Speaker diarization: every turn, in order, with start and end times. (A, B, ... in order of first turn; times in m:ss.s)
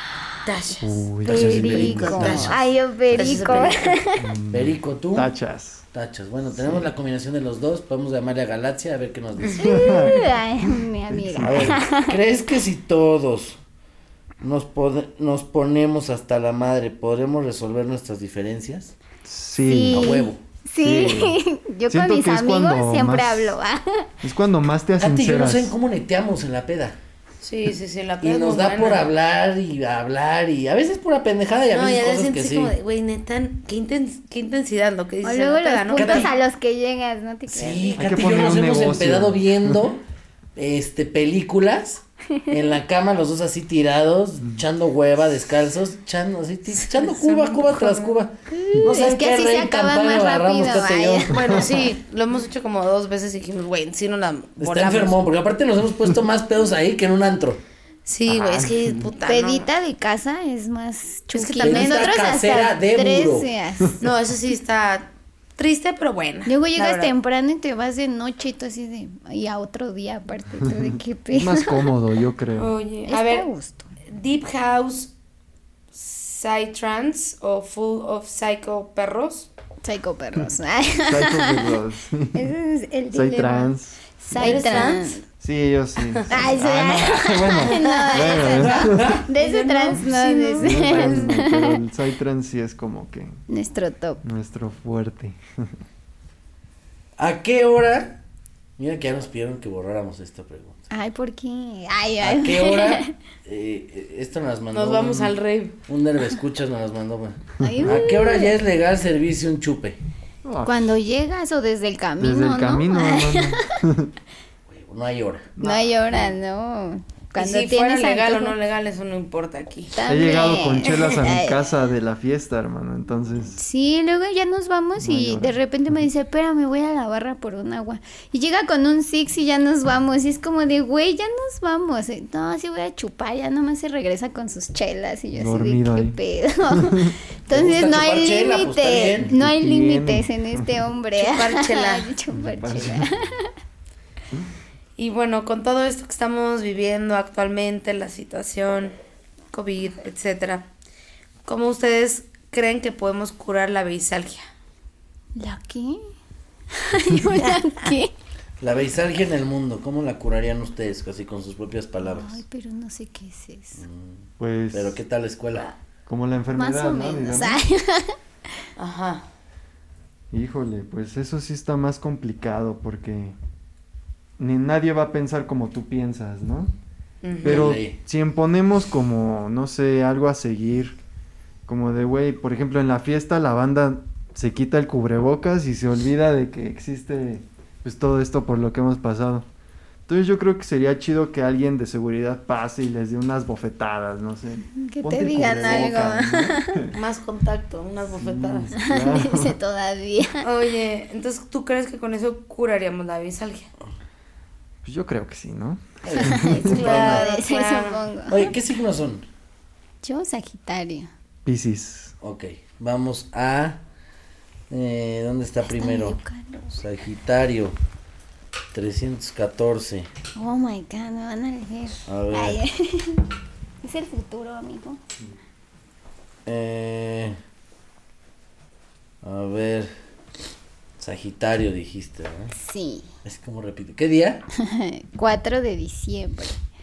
0:00.5-0:02.6 A
0:00.8-0:02.5 B
0:01.2-0:04.2 C
0:01.3-0:03.7 D
0:03.1-0:04.0 A
0:04.2-0:05.8 B
0:04.5-0:05.3 D
0:05.9-0:10.0 D
0:06.5-0:06.9 B
0:09.6-0:12.2 C
0:09.6-0:10.2 B
0:11.1-0:11.8 B
0:11.4-0:13.6 D
0:14.4-0:18.9 D
0:19.2-0:20.2 B
0:19.6-0:24.0 C
0:19.9-0:20.4 D
0:20.8-0:21.4 B
0:21.9-0:23.6 B
0:24.2-0:25.8 B
0:25.0-0:27.0 D
0:27.4-0:29.1 A
0:28.2-0:32.7 D
0:31.7-0:36.3 A
0:35.2-0:38.1 C
0:36.0-0:36.3 D
0:37.5-0:40.0 D
0:38.0-0:39.8 B
0:40.6-0:51.4 D
0:46.9-0:48.2 A
0:48.5-0:51.3 C
0:51.3-0:55.2 A
0:51.4-0:51.7 B
0:54.6-0:57.6 D
0:58.0-0:59.7 A
0:58.3-0:59.1 B
0:59.2-1:04.0 C
1:01.3-1:02.2 A
1:01.6-1:03.5 D
1:04.0-1:07.1 A
1:06.5-1:11.9 C
1:10.7-1:12.8 B
1:12.6-1:13.5 A
1:13.1-1:13.9 C
1:14.1-1:15.1 A
1:15.9-1:19.5 A
1:19.8-1:21.7 C
1:21.1-1:22.5 B
1:22.3-1:25.2 C
1:23.1-1:24.0 B
1:24.3-1:25.2 A
1:25.4-1:29.2 B
1:26.3-1:31.8 C
1:27.8-1:28.3 A
1:28.7-1:29.2 D
1:29.3-1:31.3 A
1:30.6-1:33.4 B
1:33.5-1:34.2 C
1:34.2-1:35.7 B
1:37.2-1:38.2 D
1:38.8-1:40.8 D
1:40.9-1:43.1 C
1:42.2-1:45.3 D
1:44.7-1:45.8 A
1:45.9-1:50.0 D
1:47.6-1:48.5 C
1:47.6-1:48.0 B
1:50.4-1:50.9 B
1:50.6-1:53.6 C
1:52.2-1:54.1 B
1:54.7-1:55.5 D
1:55.6-1:55.9 B
1:55.6-1:58.6 C
1:57.4-1:59.9 A
1:59.9-2:01.6 C
2:00.1-2:03.6 B
2:03.6-2:23.5 C
2:05.0-2:05.6 B
2:15.3-2:16.2 B
2:16.7-2:17.2 B
2:17.5-2:19.3 D
2:19.3-2:20.7 B
2:21.2-2:22.1 A
2:22.3-2:23.1 B
2:25.0-2:29.0 A
2:29.5-2:30.7 A
2:31.4-2:34.5 A
2:35.4-2:36.0 C
2:36.8-2:38.1 C
2:38.6-2:42.4 D
2:42.0-2:43.8 C
2:43.8-2:45.7 D
2:44.4-2:45.0 B
2:46.1-2:47.6 B
2:46.5-2:48.2 C
2:48.8-2:49.3 A
2:50.3-2:53.4 B
2:54.4-2:56.7 B
2:57.2-2:57.7 A
2:57.4-2:58.0 D
2:57.4-3:01.0 B
3:01.7-3:09.5 B
3:10.1-3:17.0 B
3:14.8-3:16.8 C
3:16.9-3:18.7 A
3:18.1-3:19.5 B
3:18.8-3:20.4 C
3:20.4-3:23.7 A
3:24.8-3:27.0 B
3:26.0-3:27.2 D
3:26.2-3:28.5 C
3:26.6-3:28.0 A
3:28.3-3:29.3 D
3:30.0-3:31.1 C
3:31.4-3:32.2 B
3:32.2-3:33.8 D
3:34.7-3:36.2 D
3:35.7-3:36.7 C
3:36.7-3:37.8 D
3:38.7-3:40.1 D
3:40.4-3:43.2 C
3:42.1-3:42.6 D
3:43.8-3:45.0 C
3:46.4-3:47.4 D
3:49.2-3:49.9 D
3:51.0-3:52.5 D
3:52.6-3:53.1 C
3:53.2-3:54.4 D
3:54.6-3:56.6 C